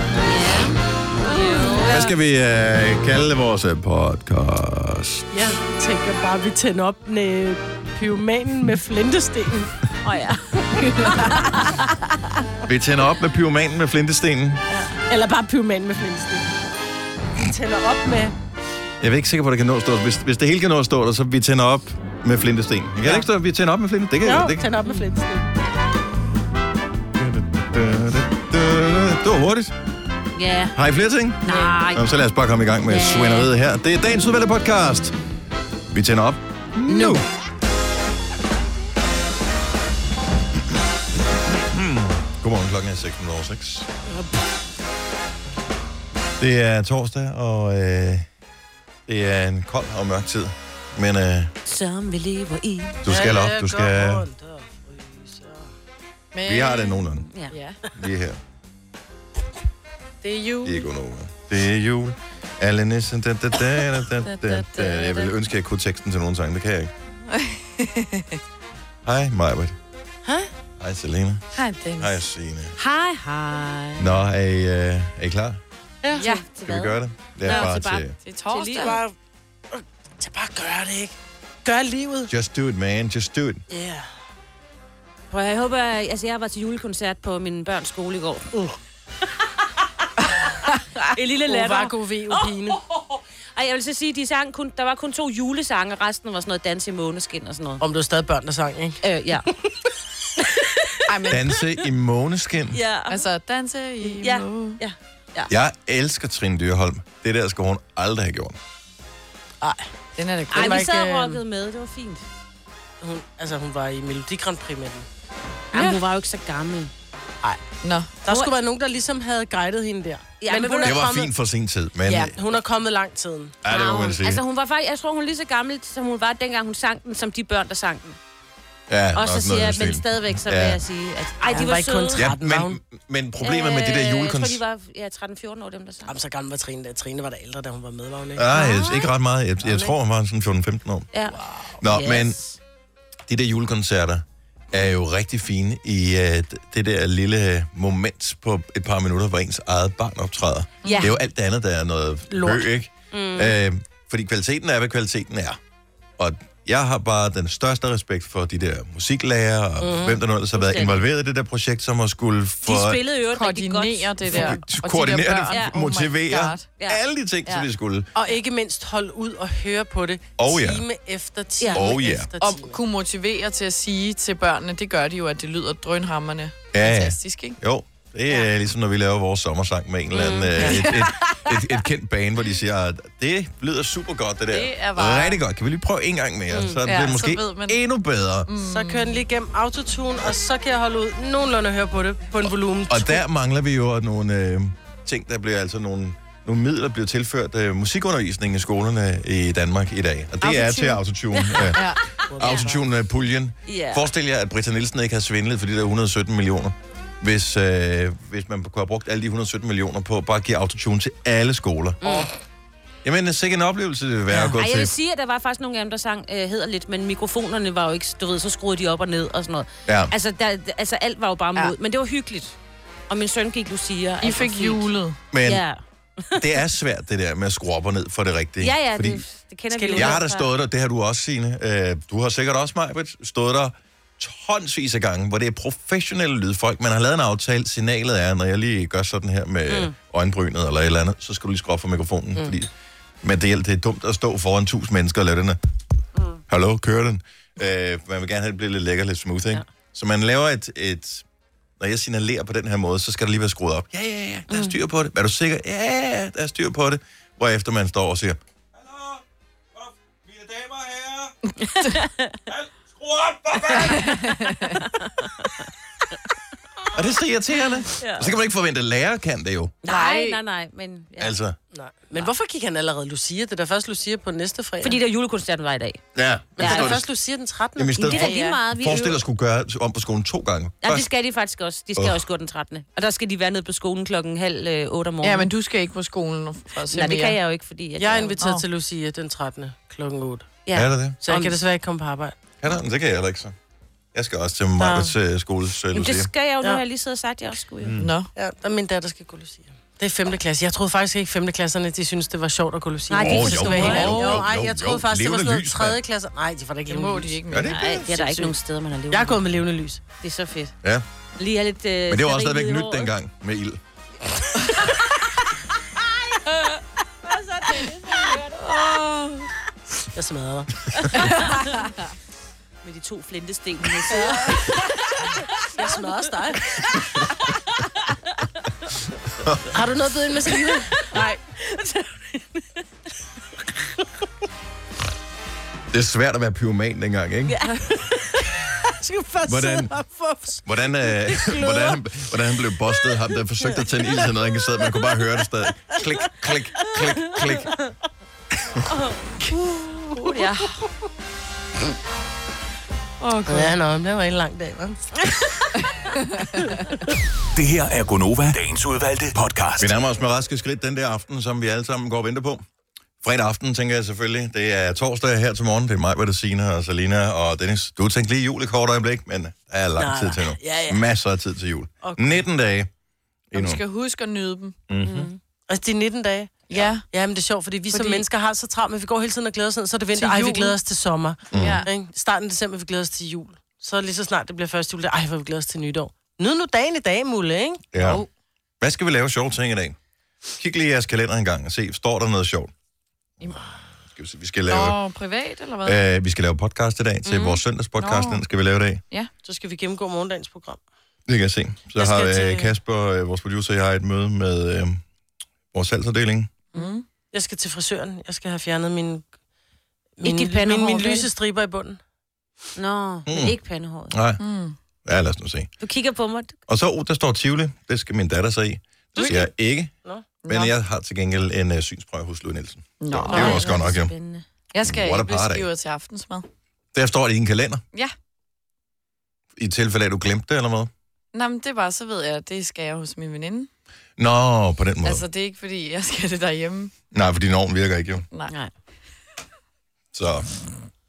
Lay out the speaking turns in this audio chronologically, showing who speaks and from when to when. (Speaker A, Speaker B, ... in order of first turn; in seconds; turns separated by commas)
Speaker A: 0.2-2.1, Speaker B: 1.8-5.4, Speaker C: 5.3-9.8, Speaker A: 10.0-11.8, Speaker C: 10.8-11.3, Speaker B: 12.7-14.6, Speaker C: 14.9-16.5, Speaker C: 17.4-18.3, Speaker B: 19.0-24.6, Speaker C: 24.2-25.5, Speaker B: 27.1-29.7, Speaker A: 30.3-30.8, Speaker B: 30.7-35.1, Speaker A: 31.4-32.0, Speaker A: 32.9-33.5, Speaker B: 35.9-37.3, Speaker A: 36.9-37.2, Speaker B: 41.7-43.9, Speaker B: 46.4-48.3, Speaker B: 49.1-51.5, Speaker A: 51.6-53.3, Speaker B: 53.0-54.2, Speaker C: 53.1-55.7, Speaker D: 56.3-57.8, Speaker B: 56.4-57.2, Speaker B: 57.9-58.4, Speaker C: 60.2-60.8, Speaker B: 60.6-66.9, Speaker A: 64.2-65.3, Speaker D: 67.3-68.4, Speaker B: 69.0-69.8, Speaker C: 70.2-70.5, Speaker B: 70.8-71.4, Speaker D: 71.5-72.2, Speaker B: 72.0-72.7, Speaker A: 72.8-74.2, Speaker B: 74.0-75.6, Speaker C: 76.0-76.4, Speaker D: 76.1-76.5, Speaker A: 76.2-79.0, Speaker B: 76.6-78.1, Speaker D: 78.2-79.0, Speaker C: 78.7-79.1, Speaker C: 79.7-82.3, Speaker B: 82.3-83.6, Speaker C: 83.7-84.1, Speaker A: 85.3-88.5, Speaker A: 91.1-97.8, Speaker C: 91.5-92.8, Speaker C: 97.8-99.0, Speaker A: 99.0-99.5, Speaker A: 100.4-101.0, Speaker D: 101.1-101.7, Speaker B: 101.3-102.8, Speaker A: 102.7-103.2, Speaker D: 103.1-104.8, Speaker A: 104.2-105.5, Speaker B: 105.5-108.6, Speaker C: 109.6-109.9, Speaker D: 110.2-110.9, Speaker C: 110.5-111.4, Speaker A: 110.5-112.2, Speaker C: 113.0-115.1, Speaker A: 115.7-116.9, Speaker D: 115.7-116.0, Speaker D: 117.8-118.1, Speaker C: 118.2-121.3, Speaker A: 118.3-118.5, Speaker A: 120.4-121.0, Speaker B: 120.8-122.4, Speaker D: 122.1-122.3, Speaker C: 122.2-123.5, Speaker B: 123.6-124.4, Speaker A: 123.7-128.2, Speaker B: 128.9-130.8, Speaker A: 129.1-132.3, Speaker C: 131.4-132.8, Speaker B: 132.1-134.6, Speaker A: 133.4-136.2, Speaker C: 136.1-138.4, Speaker B: 138.3-141.1, Speaker A: 138.5-139.1, Speaker C: 139.6-139.9, Speaker A: 141.1-142.6, Speaker B: 141.8-142.4, Speaker B: 143.3-155.6, Speaker D: 150.8-151.1, Speaker A: 150.8-151.1, Speaker C: 152.3-152.7, Speaker A: 153.1-153.6, Speaker B: 156.2-163.0, Speaker C: 159.8-160.2, Speaker A: 160.5-161.0, Speaker A: 162.6-164.5, Speaker D: 163.3-166.7, Speaker B: 164.3-168.1, Speaker A: 165.5-165.8, Speaker C: 168.1-172.8, Speaker B: 170.4-170.8, Speaker A: 171.6-171.8, Speaker B: 171.7-172.3, Speaker D: 172.4-177.6, Speaker B: 176.7-188.5, Speaker A: 180.1-180.7, Speaker D: 180.6-181.8, Speaker D: 184.5-185.4, Speaker A: 186.5-186.8, Speaker D: 186.8-187.8, Speaker D: 188.5-189.2, Speaker C: 188.6-193.2, Speaker B: 192.9-212.0, Speaker D: 200.4-202.0, Speaker C: 202.3-202.8, Speaker A: 203.7-204.1, Speaker A: 212.0-212.3, Speaker B: 213.0-214.9, Speaker A: 214.5-222.6, Speaker B: 219.8-220.1, Speaker A: 223.1-224.8, Speaker D: 224.2-225.2, Speaker B: 225.3-225.6, Speaker A: 225.4-226.5, Speaker B: 226.4-229.2, Speaker A: 228.6-230.5, Speaker C: 229.7-230.2, Speaker B: 229.9-242.7, Speaker A: 239.7-239.9, Speaker B: 243.2-245.6, Speaker B: 246.5-251.2, Speaker B: 251.8-259.2, Speaker A: 254.5-254.7, Speaker B: 259.7-261.3, Speaker A: 261.6-262.4, Speaker B: 262.5-264.2, Speaker D: 263.9-264.8, Speaker A: 264.7-265.6, Speaker B: 266.9-269.7, Speaker A: 267.9-268.3, Speaker D: 269.8-270.4, Speaker A: 269.8-271.4, Speaker B: 271.2-271.6, Speaker C: 271.7-275.0, Speaker A: 274.8-276.0, Speaker B: 276.1-277.1, Speaker A: 276.6-277.0, Speaker C: 276.6-278.3, Speaker B: 277.8-281.1, Speaker A: 278.0-279.2, Speaker D: 278.1-278.6, Speaker A: 280.8-285.5, Speaker B: 281.9-282.2, Speaker D: 285.2-287.4, Speaker A: 286.9-288.3, Speaker C: 288.0-290.6, Speaker D: 288.4-288.6, Speaker A: 290.6-291.6, Speaker B: 290.7-291.2, Speaker C: 291.2-292.4, Speaker B: 292.6-293.5, Speaker B: 294.1-296.3, Speaker C: 294.8-295.1, Speaker A: 295.9-298.0, Speaker B: 297.8-298.1, Speaker D: 298.0-298.3, Speaker C: 298.3-307.4, Speaker A: 303.1-304.3, Speaker B: 303.2-306.0, Speaker D: 303.7-304.4, Speaker D: 306.9-307.9, Speaker B: 307.5-307.8, Speaker A: 307.7-309.4, Speaker C: 308.0-308.5, Speaker C: 309.1-310.0, Speaker A: 310.2-310.7, Speaker A: 311.4-313.1, Speaker B: 312.1-313.8, Speaker C: 317.2-318.4, Speaker D: 318.6-319.5, Speaker C: 320.1-321.4, Speaker D: 321.1-321.5, Speaker A: 321.2-321.7, Speaker A: 322.8-324.6, Speaker C: 324.1-324.7, Speaker A: 325.6-325.9, Speaker C: 325.7-326.9, Speaker B: 329.4-329.8, Speaker C: 329.7-331.0, Speaker A: 331.0-332.6, Speaker B: 335.9-337.6, Speaker A: 337.5-337.8, Speaker C: 338.4-342.0, Speaker B: 339.4-339.9, Speaker B: 340.6-347.8, Speaker C: 343.7-345.2, Speaker C: 345.9-346.3, Speaker C: 347.3-347.6, Speaker C: 349.5-350.4, Speaker A: 350.1-350.8, Speaker D: 353.2-353.8, Speaker C: 353.5-355.6, Speaker E: 357.5-359.9, Speaker B: 359.8-362.6, Speaker B: 363.2-372.9, Speaker C: 370.0-371.0, Speaker C: 372.0-372.4, Speaker B: 373.5-373.8, Speaker D: 373.5-375.2, Speaker B: 374.9-375.3, Speaker A: 375.0-375.4, Speaker C: 375.7-387.8, Speaker D: 376.7-377.0, Speaker D: 377.9-378.2, Speaker D: 380.1-380.8, Speaker B: 381.5-381.8, Speaker D: 381.5-381.9, Speaker B: 387.9-388.2, Speaker D: 388.0-388.3, Speaker B: 388.8-390.0, Speaker B: 390.6-392.7, Speaker D: 393.4-393.7, Speaker B: 394.1-395.0, Speaker D: 394.7-396.0, Speaker B: 395.8-399.0, Speaker A: 397.2-397.6, Speaker D: 398.0-398.4, Speaker C: 399.4-400.8, Speaker B: 401.3-405.0, Speaker C: 401.9-402.7, Speaker B: 405.7-406.5, Speaker D: 406.7-407.0, Speaker C: 407.3-409.2, Speaker C: 410.2-412.0, Speaker A: 410.2-411.3, Speaker A: 412.8-414.1, Speaker B: 413.3-413.5, Speaker B: 414.1-414.4, Speaker D: 414.4-414.8, Speaker B: 415.0-415.7, Speaker A: 415.8-416.6, Speaker B: 416.7-419.9, Speaker D: 419.1-419.4, Speaker D: 420.4-420.7, Speaker B: 420.5-424.1, Speaker D: 423.0-423.8, Speaker A: 423.3-424.4, Speaker D: 424.7-426.5, Speaker B: 424.8-425.6, Speaker B: 426.9-427.8, Speaker B: 429.6-430.9, Speaker D: 431.3-433.7, Speaker B: 434.2-435.2, Speaker D: 435.0-436.9, Speaker B: 437.1-438.2, Speaker B: 440.1-440.5